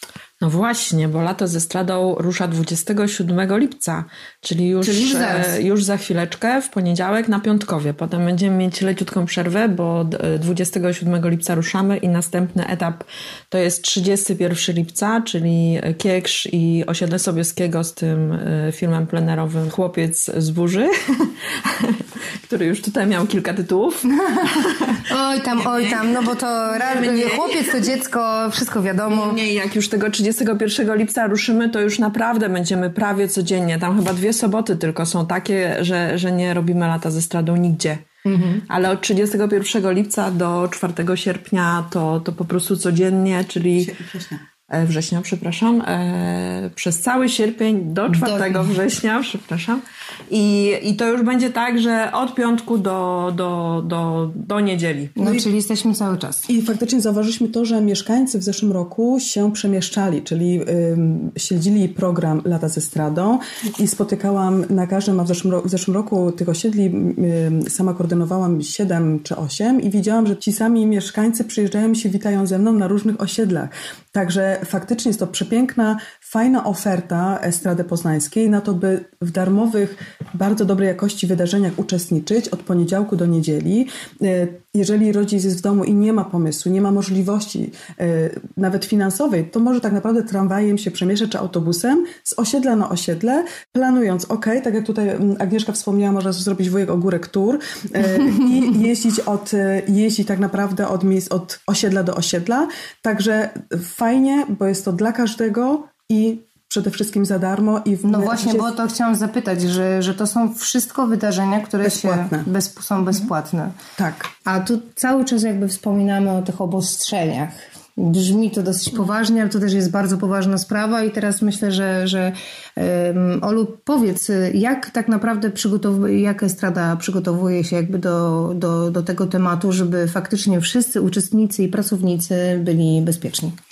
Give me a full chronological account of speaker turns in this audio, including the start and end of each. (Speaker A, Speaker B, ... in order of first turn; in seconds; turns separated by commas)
Speaker A: 0.4-25.0, Speaker B: 4.8-5.6, Speaker B: 25.1-29.4, Speaker A: 25.6-26.1, Speaker A: 26.7-27.8, Speaker A: 29.1-38.0, Speaker B: 38.2-38.6, Speaker A: 38.7-43.9, Speaker C: 43.8-44.4, Speaker A: 44.7-55.1, Speaker B: 48.1-48.7, Speaker B: 55.2-56.5, Speaker C: 56.5-108.7, Speaker B: 108.0-113.8, Speaker C: 111.8-112.5, Speaker C: 114.0-114.3, Speaker B: 114.4-133.6